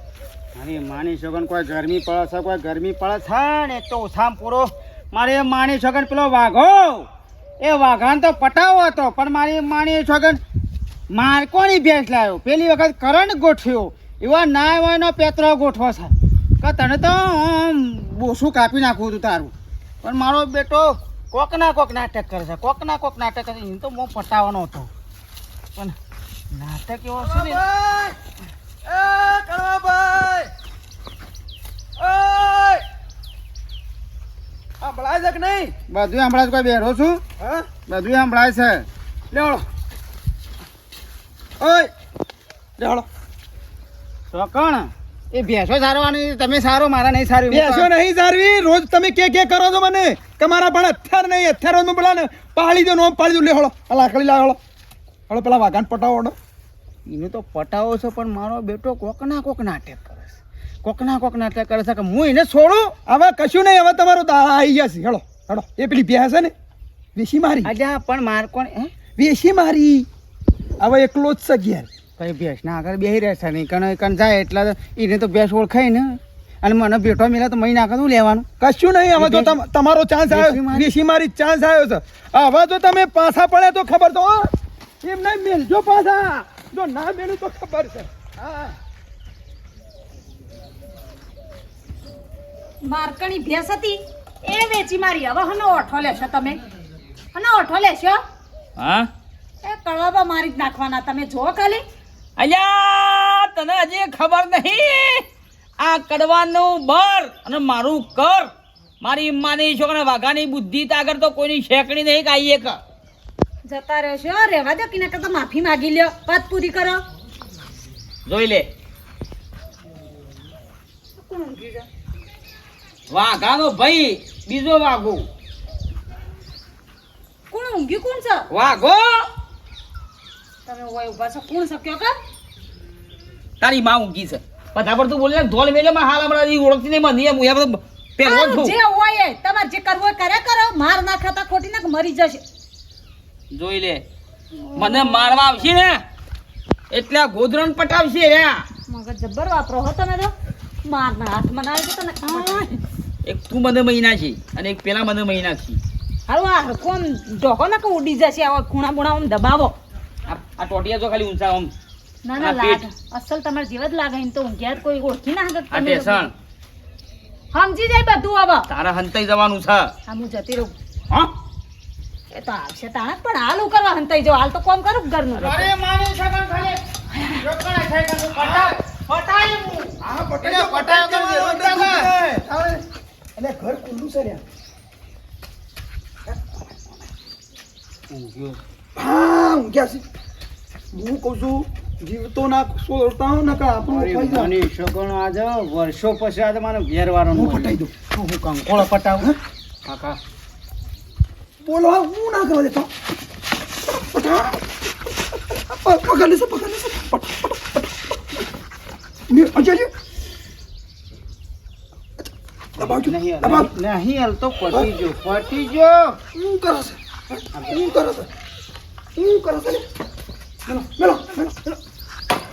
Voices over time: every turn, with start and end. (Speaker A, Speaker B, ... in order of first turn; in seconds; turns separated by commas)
Speaker A: 0.6-7.1, Speaker A: 7.6-10.4, Speaker A: 11.1-24.9, Speaker A: 26.5-27.6, Speaker B: 27.2-28.1, Speaker B: 28.9-30.5, Speaker B: 32.0-32.8, Speaker B: 34.8-35.8, Speaker A: 35.9-37.2, Speaker B: 37.4-37.7, Speaker A: 37.9-38.9, Speaker B: 39.3-39.6, Speaker B: 41.6-41.9, Speaker B: 42.8-43.0, Speaker A: 44.3-47.9, Speaker B: 47.5-54.6, Speaker B: 55.3-56.4, Speaker A: 57.0-62.9, Speaker B: 63.0-66.5, Speaker B: 67.1-67.7, Speaker A: 67.6-69.0, Speaker B: 69.2-70.1, Speaker B: 70.8-71.9, Speaker A: 72.2-78.5, Speaker B: 78.6-84.5, Speaker A: 79.2-79.6, Speaker A: 80.3-80.9, Speaker B: 85.0-88.8, Speaker C: 92.9-96.6, Speaker C: 97.3-98.2, Speaker D: 98.8-99.1, Speaker C: 99.6-101.8, Speaker D: 102.4-105.2, Speaker D: 105.8-108.5, Speaker D: 109.0-112.8, Speaker C: 113.7-117.0, Speaker D: 118.2-118.7, Speaker C: 121.2-121.8, Speaker D: 123.1-125.3, Speaker C: 127.5-128.5, Speaker D: 128.5-129.3, Speaker C: 130.7-132.1, Speaker D: 133.6-138.8, Speaker C: 138.2-142.4, Speaker D: 143.5-144.0, Speaker C: 144.5-145.7, Speaker D: 144.8-146.0, Speaker D: 146.9-148.6, Speaker C: 148.9-150.3, Speaker C: 150.8-152.7, Speaker D: 152.2-152.7, Speaker D: 153.2-155.8, Speaker C: 156.3-159.7, Speaker D: 160.3-161.7, Speaker C: 162.2-166.3, Speaker D: 162.4-162.8, Speaker D: 165.7-166.3, Speaker C: 167.5-168.7, Speaker D: 168.7-169.9, Speaker C: 170.1-170.7, Speaker C: 172.3-175.7, Speaker A: 175.3-182.1, Speaker B: 180.0-182.8, Speaker B: 183.4-184.4, Speaker A: 188.1-188.6, Speaker B: 188.9-190.0, Speaker B: 190.9-194.5, Speaker A: 193.8-200.2, Speaker B: 197.3-197.9, Speaker B: 201.6-202.9, Speaker B: 203.9-204.6, Speaker B: 205.5-207.8, Speaker B: 209.3-209.9, Speaker B: 212.2-213.7, Speaker A: 212.8-216.2, Speaker B: 216.3-218.3, Speaker A: 217.5-217.9, Speaker B: 219.2-219.8, Speaker B: 220.7-221.8